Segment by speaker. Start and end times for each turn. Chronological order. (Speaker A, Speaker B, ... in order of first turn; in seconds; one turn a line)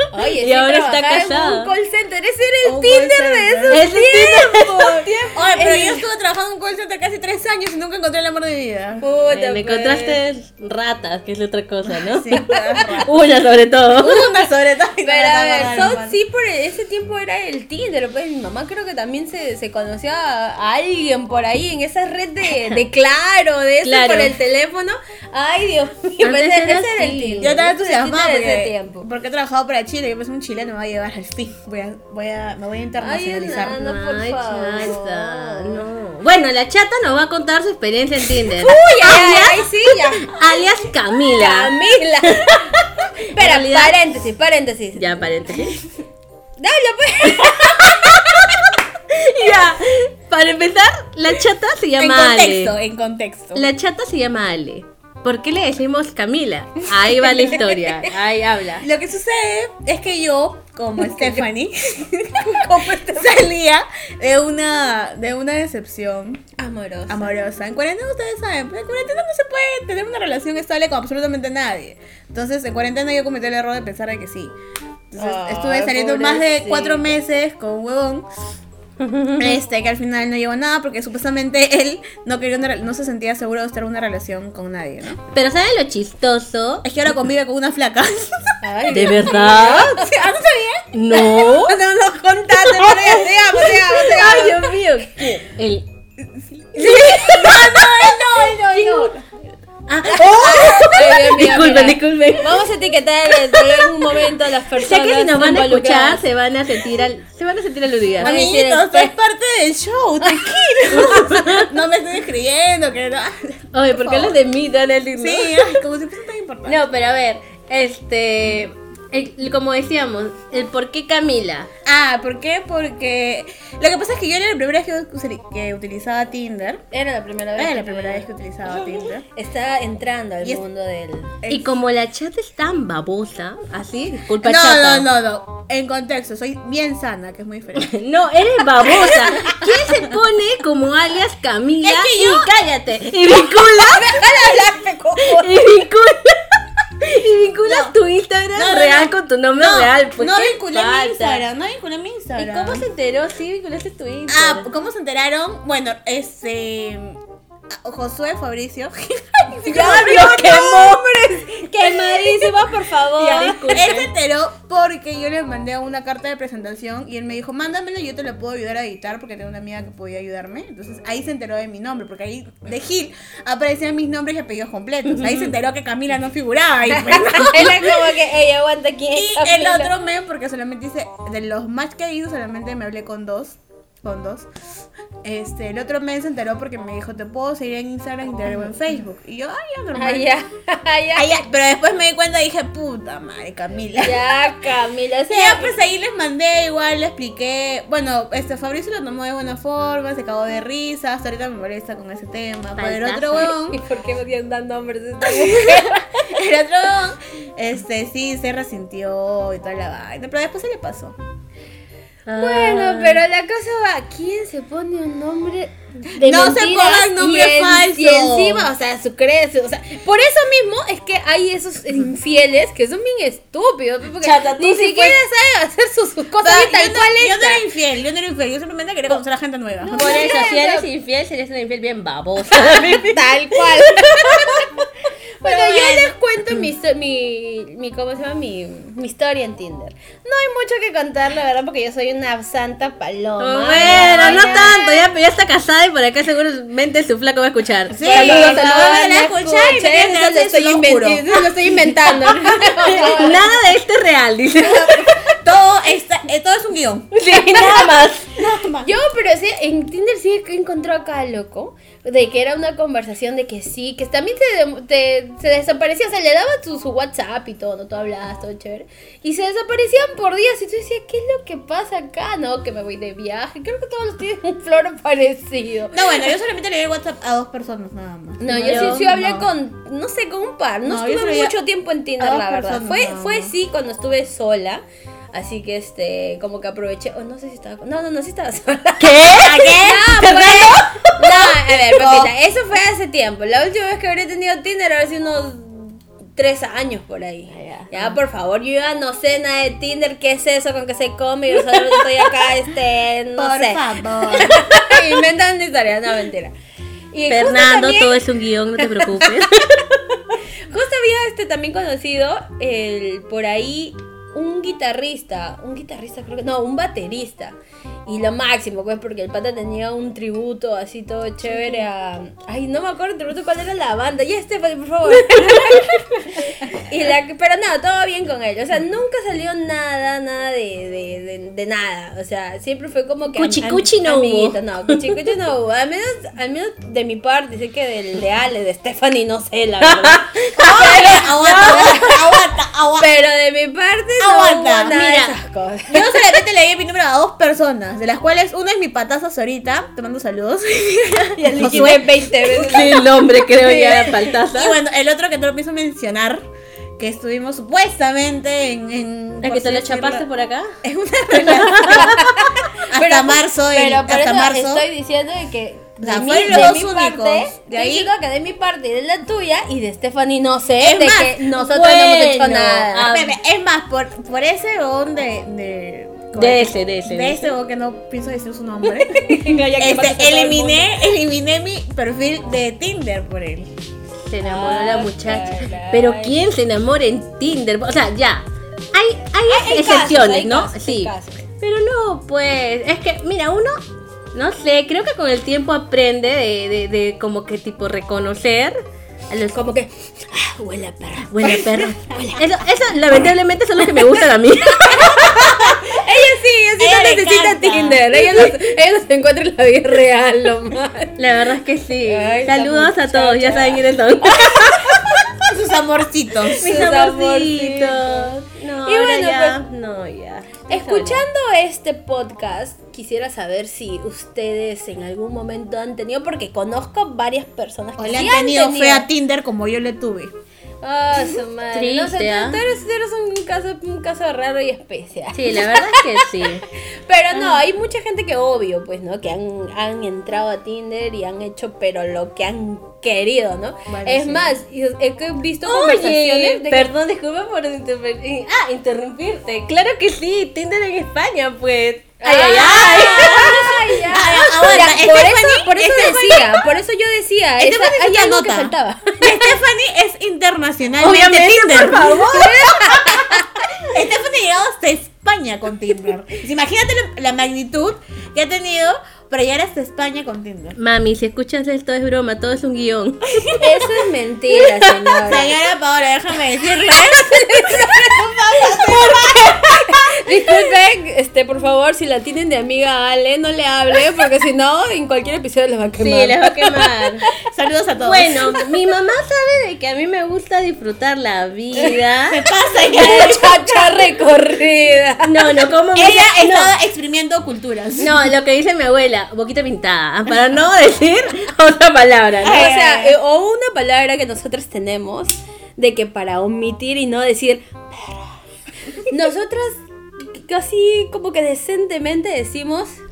Speaker A: 0.1-6.0
Speaker B: 0.4-1.7
Speaker C: 2.6-3.9
Speaker B: 3.7-5.7
Speaker C: 5.3-9.1
Speaker A: 9.0-10.2
Speaker B: 9.3-14.3
Speaker C: 11.8-13.2
Speaker C: 13.9-16.2
Speaker A: 15.0-29.1
Speaker B: 15.6-16.0
Speaker B: 22.5-22.8
Speaker B: 23.8-24.3
Speaker B: 26.2-27.5
Speaker C: 27.4-33.8
Speaker A: 33.0-35.9
Speaker B: 33.5-44.0
Speaker A: 38.5-40.3
Speaker A: 41.3-42.6
Speaker A: 43.3-45.6
Speaker B: 45.0-45.8
Speaker A: 46.6-48.5
Speaker B: 47.4-52.7
Speaker C: 52.0-53.7
Speaker B: 53.5-58.8
Speaker C: 58.8-66.4
Speaker A: 62.4-63.4
Speaker A: 66.6-67.3
Speaker C: 67.1-74.5
Speaker C: 75.1-78.3
Speaker A: 75.2-77.2
Speaker B: 79.0-79.6
Speaker C: 79.4-85.2
Speaker B: 85.3-86.8
Speaker C: 86.8-88.5
Speaker A: 88.6-90.1
Speaker B: 88.9-89.9
Speaker C: 89.2-90.9
Speaker B: 90.9-91.7
Speaker A: 91.1-94.7
Speaker B: 92.5-93.2
Speaker C: 92.8-94.0
Speaker B: 93.9-95.9
Speaker C: 96.6-99.2
Speaker A: 96.8-99.1
Speaker B: 96.8-97.5
Speaker B: 99.9-102.6
Speaker C: 100.1-101.2
Speaker A: 100.2-106.2
Speaker B: 104.7-108.4
Speaker C: 108.2-113.3
Speaker A: 108.2-109.1
Speaker A: 110.2-111.1
Speaker B: 110.9-111.7
Speaker B: 113.7-115.8
Speaker C: 113.9-114.4
Speaker C: 115.2-116.8
Speaker B: 116.7-121.7
Speaker C: 121.8-126.8
Speaker A: 126.9-128.3
Speaker C: 127.5-129.2
Speaker A: 129.3-131.3
Speaker C: 131.4-131.7
Speaker B: 131.5-135.1
Speaker C: 134.4-137.9
Speaker B: 137.7-144.4
Speaker C: 138.8-139.7
Speaker C: 141.8-142.5
Speaker A: 143.5-145.6
Speaker B: 145.2-146.3
Speaker B: 147.0-151.4
Speaker C: 147.6-147.9
Speaker C: 148.5-152.9
Speaker B: 152.3-154.7
Speaker C: 154.3-157.2
Speaker C: 157.8-160.9
Speaker A: 159.7-163.6
Speaker B: 159.7-161.0
Speaker C: 161.9-162.2
Speaker B: 163.2-164.1
Speaker C: 163.2-178.1
Speaker B: 175.1-175.5
Speaker A: 176.9-179.9
Speaker C: 179.1-184.5
Speaker C: 185.2-190.3
Speaker A: 189.9-191.4
Speaker C: 191.1-194.2
Speaker A: 194.0-195.7
Speaker C: 195.3-203.8
Speaker B: 202.8-203.5
Speaker A: 203.7-206.2
Speaker C: 205.2-211.2
Speaker B: 212.3-213.2
Speaker A: 212.3-227.6
Speaker C: 216.2-218.7
Speaker B: 224.2-225.2
Speaker C: 226.4-230.3
Speaker A: 229.8-230.9
Speaker B: 229.9-234.6
Speaker A: 232.4-234.7
Speaker A: 235.4-245.0
Speaker C: 235.4-236.1
Speaker B: 243.4-249.0
Speaker C: 243.7-244.8
Speaker C: 247.9-253.1
Speaker A: 248.0-253.7
Speaker B: 252.8-255.2
Speaker C: 254.7-258.9
Speaker B: 257.1-258.3
Speaker A: 258.8-276.3
Speaker C: 275.9-279.5
Speaker A: 278.4-303.9
Speaker B: 278.5-279.1
Speaker C: 280.8-281.5
Speaker C: 282.2-283.5
Speaker B: 289.0-289.8
Speaker C: 289.4-292.3
Speaker B: 290.4-290.7
Speaker B: 297.5-298.2
Speaker B: 301.6-301.9
Speaker C: 303.4-304.6
Speaker A: 304.4-306.5
Speaker A: 307.1-308.2
Speaker B: 307.3-309.6
Speaker A: 308.8-309.5
Speaker A: 310.7-342.1
Speaker B: 321.5-321.8
Speaker B: 325.3-325.9
Speaker B: 333.3-335.2
Speaker B: 339.8-342.4
Speaker C: 340.6-343.1
Speaker A: 343.0-346.2
Speaker C: 344.2-345.0
Speaker B: 344.9-345.4
Speaker C: 345.9-352.3
Speaker A: 351.4-354.3
Speaker B: 351.9-354.8
Speaker C: 354.5-356.4
Speaker C: 357.0-360.2
Speaker B: 359.4-360.7
Speaker C: 360.8-364.9
Speaker B: 361.3-362.2
Speaker A: 361.9-362.2
Speaker A: 362.9-373.1
Speaker C: 366.0-368.1
Speaker B: 366.4-366.7
Speaker C: 370.8-371.4
Speaker B: 371.5-373.3
Speaker C: 373.0-379.2
Speaker B: 376.3-377.5
Speaker A: 379.1-379.7
Speaker B: 379.2-380.9
Speaker C: 379.8-383.7
Speaker B: 384.2-393.8
Speaker A: 384.4-386.4
Speaker A: 389.5-391.4
Speaker B: 394.3-398.8
Speaker B: 399.3-399.8
Speaker A: 399.5-401.5
Speaker B: 401.2-405.2
Speaker C: 401.4-402.0
Speaker A: 402.1-402.4
Speaker A: 404.8-411.1
Speaker C: 405.0-405.8
Speaker C: 406.8-408.5
Speaker B: 411.2-415.2
Speaker A: 412.1-415.0
Speaker C: 415.4-416.6
Speaker B: 416.6-421.2
Speaker A: 416.6-418.3
Speaker A: 418.8-419.6
Speaker A: 420.7-429.1
Speaker C: 428.0-430.3
Speaker A: 430.8-436.2
Speaker B: 431.7-432.6
Speaker B: 435.3-436.6
Speaker A: 437.1-446.9
Speaker B: 437.3-437.6
Speaker C: 443.9-444.5
Speaker B: 445.6-454.8
Speaker A: 452.2-459.4
Speaker C: 452.5-456.8
Speaker C: 457.6-462.3
Speaker B: 461.0-462.8
Speaker A: 462.2-463.6
Speaker C: 462.9-463.4
Speaker C: 463.9-470.8
Speaker B: 470.8-473.6
Speaker A: 473.6-475.6
Speaker B: 474.8-475.2
Speaker C: 475.2-480.0
Speaker A: 476.8-487.1
Speaker B: 486.0-487.2
Speaker C: 487.4-488.5
Speaker B: 488.0-492.4
Speaker C: 492.3-493.9
Speaker A: 492.9-495.5
Speaker B: 495.2-496.7
Speaker C: 495.9-498.3
Speaker B: 498.0-502.7
Speaker C: 502.4-503.2
Speaker A: 502.4-508.3
Speaker A: 509.1-513.0